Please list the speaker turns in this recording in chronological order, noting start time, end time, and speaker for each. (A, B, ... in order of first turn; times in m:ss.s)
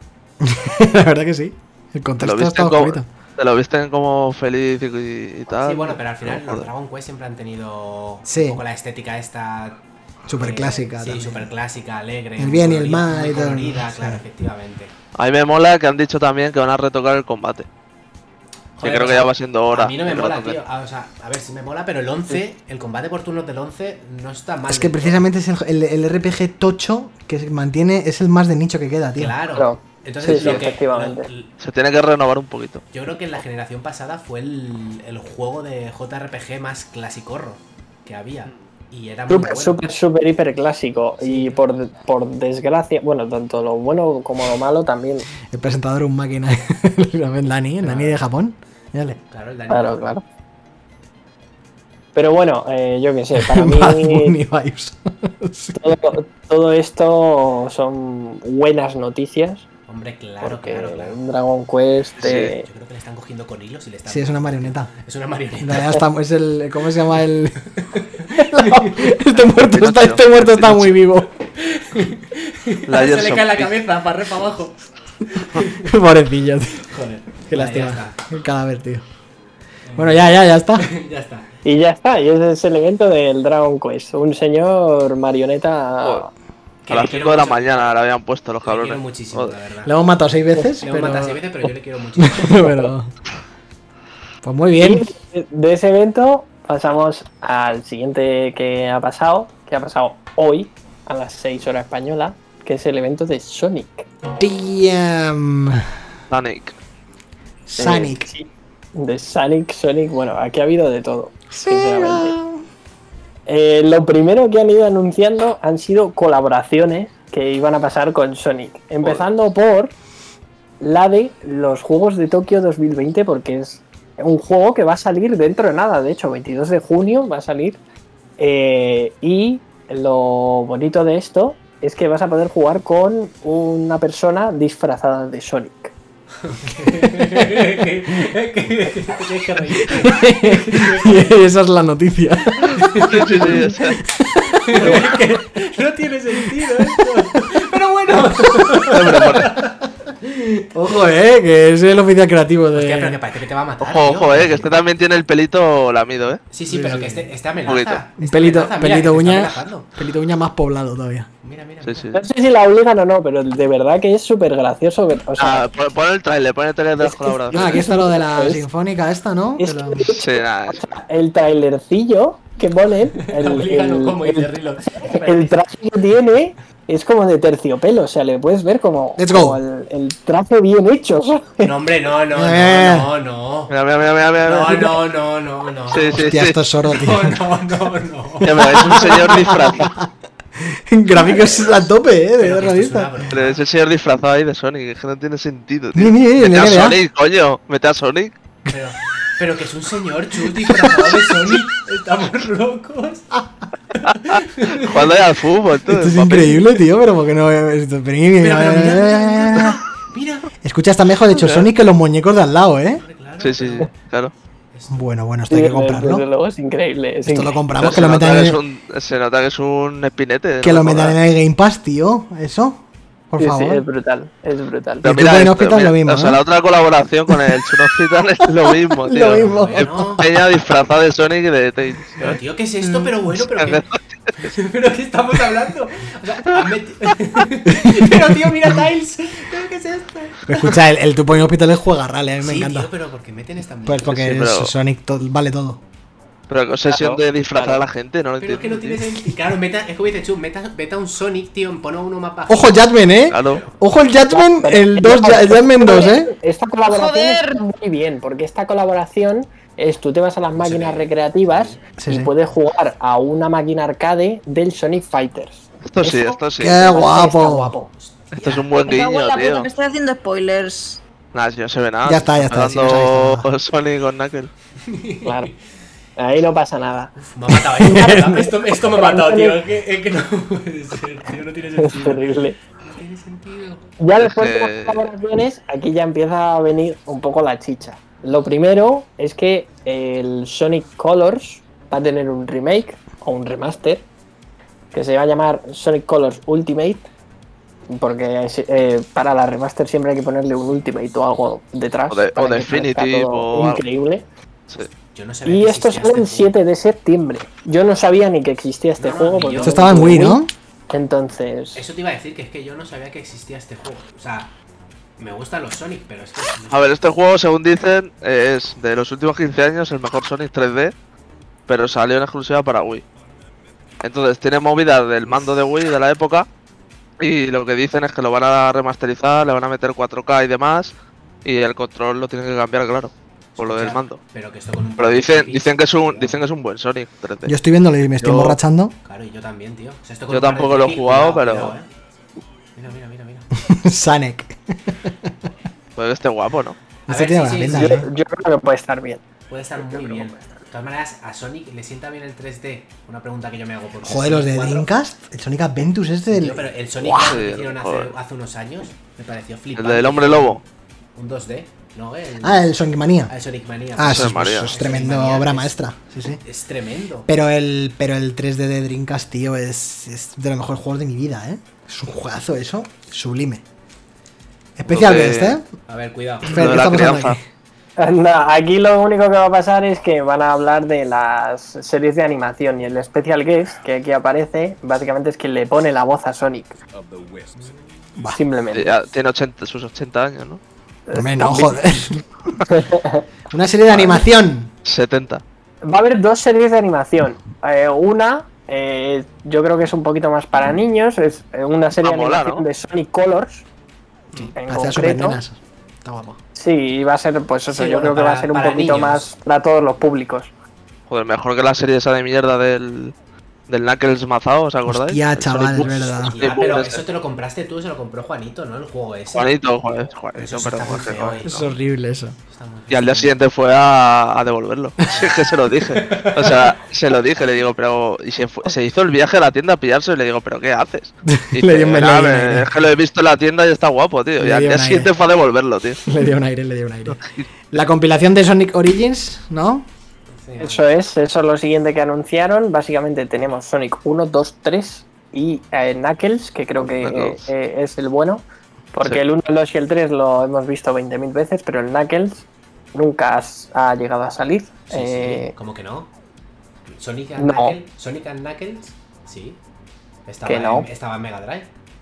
0:00.4-0:03.1 A
0:02.2-0:06.7 B
0:05.5-0:09.8 C
0:08.3-0:08.6 A
0:10.3-0:11.5 A
0:10.3-0:14.9 C
0:12.4-0:14.2 A
0:15.2-0:17.7 B
0:18.8-0:25.3 C
0:18.8-0:20.6 B
0:24.7-0:29.4 A
0:29.2-0:31.5 C
0:29.5-0:31.3 D
0:30.2-0:30.6 A
0:31.6-0:32.8 B
0:32.9-0:39.9 C
0:39.3-0:45.3 D
0:41.2-0:41.7 C
0:45.5-0:49.2 A
0:47.8-0:48.2 C
0:49.3-0:50.2 C
0:49.7-0:50.2 D
0:52.2-0:54.4 D
0:53.4-0:56.0 A
0:55.8-0:59.6 D
0:59.9-1:01.2 C
1:00.4-1:02.6 D
1:02.2-1:02.5 B
1:02.2-1:06.0 C
1:04.1-1:04.9 A
1:05.6-1:11.3 A
1:07.8-1:09.0 C
1:09.6-1:10.9 B
1:11.5-1:14.8 C
1:12.9-1:13.7 B
1:15.3-1:15.9 C
1:15.7-1:16.9 A
1:16.7-1:18.2 C
1:17.5-1:19.0 A
1:19.9-1:21.5 C
1:20.0-1:20.9 A
1:21.6-1:26.3 D
1:26.8-1:28.0 C
1:26.9-1:29.6 B
1:28.6-1:29.9 C
1:29.8-1:33.1 A
1:30.8-1:32.9 C
1:34.4-1:35.1 A
1:34.8-1:44.1 D
1:44.4-1:45.9 A
1:46.3-1:46.8 B
1:47.7-1:48.3 A
1:47.8-1:52.4 D
1:51.5-1:52.6 A
1:53.5-1:59.9 D
2:00.8-2:07.8 D
2:08.4-2:15.9 D
2:16.4-2:21.4 C
2:16.8-2:17.9 A
2:19.8-2:25.5 A
2:22.7-2:23.7 C
2:23.0-2:24.0 B
2:24.4-2:29.7 C
2:26.3-2:27.6 A
2:28.1-2:29.4 A
2:28.9-2:29.5 B
2:30.2-2:33.2 A
2:32.8-2:34.7 C
2:33.8-2:36.4 B
2:36.5-2:39.9 C
2:36.7-2:37.3 A
2:37.7-2:38.0 B
2:38.2-2:41.3 A
2:41.4-2:42.2 C
2:41.8-2:42.2 B
2:42.1-2:45.7 D
2:45.4-2:47.7 B
2:47.0-2:48.6 D
2:47.5-2:50.2 A
2:49.6-3:01.7 D
2:50.2-2:50.8 B
2:53.2-2:55.6 C
2:59.2-2:59.6 A
3:01.6-3:03.8 C
3:02.3-3:03.1 A
3:03.7-3:05.0 B
3:04.4-3:09.5 C
3:05.9-3:06.6 B
3:06.2-3:07.4 A
3:08.4-3:09.9 B
3:08.5-3:13.3 A
3:11.2-3:11.8 C
3:12.4-3:13.6 C
3:13.3-3:18.3 B
3:16.0-3:17.0 A
3:18.7-3:23.4 C
3:20.6-3:21.6 A
3:24.0-3:25.2 C
3:24.1-3:26.6 B
3:25.9-3:29.8 A
3:28.4-3:30.5 C
3:30.6-3:33.0 A
3:32.9-3:33.9 C
3:33.4-3:34.3 B
3:34.7-3:35.0 C
3:34.9-3:36.2 A
3:35.5-3:37.6 D
3:37.3-3:38.6 A
3:37.8-3:41.2 B
3:40.6-3:43.8 A
3:43.4-3:45.1 D
3:45.0-3:52.4 B
3:45.0-3:46.4 A
3:48.5-3:50.2 A
3:49.3-3:50.4 C
3:52.2-4:00.8 C
3:52.8-3:53.1 A
3:53.6-3:54.0 B
3:57.7-3:58.8 A
4:00.5-4:02.9 A
4:02.4-4:04.4 C
4:03.9-4:05.8 A
4:04.2-4:04.7 B
4:06.5-4:09.0 B
4:06.9-4:07.8 D
4:08.4-4:13.8 C
4:12.5-4:16.3 A
4:13.3-4:13.6 B
4:14.3-4:27.9 D
4:16.9-4:17.6 E
4:20.6-4:21.8 C
4:22.0-4:22.3 A
4:25.9-4:26.8 B
4:26.6-4:27.7 A
4:27.8-4:28.8 C
4:28.4-4:29.7 B
4:28.8-4:31.0 E
4:31.3-4:34.5 B
4:32.0-4:33.5 A
4:34.8-4:35.6 C
4:35.2-4:35.5 D
4:36.2-4:37.1 D
4:37.2-4:43.9 C
4:37.5-4:38.5 A
4:37.8-4:39.6 D
4:41.8-4:42.6 D
4:44.0-4:54.1 D
4:44.2-4:45.1 B
4:54.9-4:57.1 D
4:57.9-5:04.2 D
5:02.1-5:03.8 B
5:05.1-5:06.6 C
5:05.4-5:11.8 D
5:09.0-5:10.3 C
5:09.6-5:10.5 A
5:11.7-5:14.5 C
5:15.2-5:17.0 C
5:16.7-5:20.9 B
5:21.7-5:23.0 B
5:24.0-5:26.5 B
5:27.2-5:30.9 B
5:31.4-5:34.2 B
5:33.6-5:36.4 C
5:35.0-5:37.5 B
5:37.4-5:39.0 A
5:38.2-5:38.6 B
5:39.0-5:41.9 C
5:40.3-5:41.8 B
5:42.8-5:43.5 C
5:43.6-5:45.3 A
5:46.0-5:46.8 B
5:47.1-5:48.1 C
5:47.1-5:48.1 A
5:47.7-5:49.2 D
5:49.5-5:54.9 C
5:49.9-5:50.4 D
5:54.0-5:57.3 A
5:56.3-6:00.6 C
5:57.0-5:58.1 B
5:59.8-6:00.6 B
6:01.2-6:02.7 C
6:02.4-6:03.3 A
6:03.3-6:05.7 C
6:04.0-6:06.4 A
6:04.0-6:04.9 B
6:06.4-6:07.3 C
6:07.3-6:13.6 A
6:14.8-6:15.7 A
6:14.9-6:15.6 B
6:15.9-6:16.7 C
6:16.5-6:17.4 A
6:16.5-6:17.4 B
6:18.0-6:26.8 D
6:28.3-6:29.0 D
6:28.7-6:30.6 B
6:31.1-6:31.8 D
6:31.1-6:32.6 A
6:32.6-6:33.2 D
6:33.5-6:34.7 A
6:34.8-6:35.4 B
6:35.8-6:43.6 D
6:42.0-6:42.7 B
6:44.4-6:46.4 A
6:44.6-6:45.4 D
6:46.6-6:50.5 D
6:47.7-6:49.3 C
6:51.1-6:53.1 B
6:53.7-6:57.0 B
6:54.9-6:56.4 A
6:56.1-6:59.6 C
6:59.3-7:01.7 B
7:00.4-7:01.7 C
7:01.4-7:02.4 A
7:02.5-7:03.4 C
7:02.9-7:16.0 B
7:05.1-7:06.8 C
7:11.3-7:12.7 A
7:14.4-7:15.1 A
7:16.0-7:17.2 A
7:17.7-7:19.9 A
7:20.3-7:20.9 C
7:20.6-7:35.6 D
7:27.0-7:27.5 B
7:34.9-7:36.1 C
7:36.9-7:39.6 C
7:37.4-7:37.8 D
7:40.3-7:41.7 C
7:40.4-7:40.9 D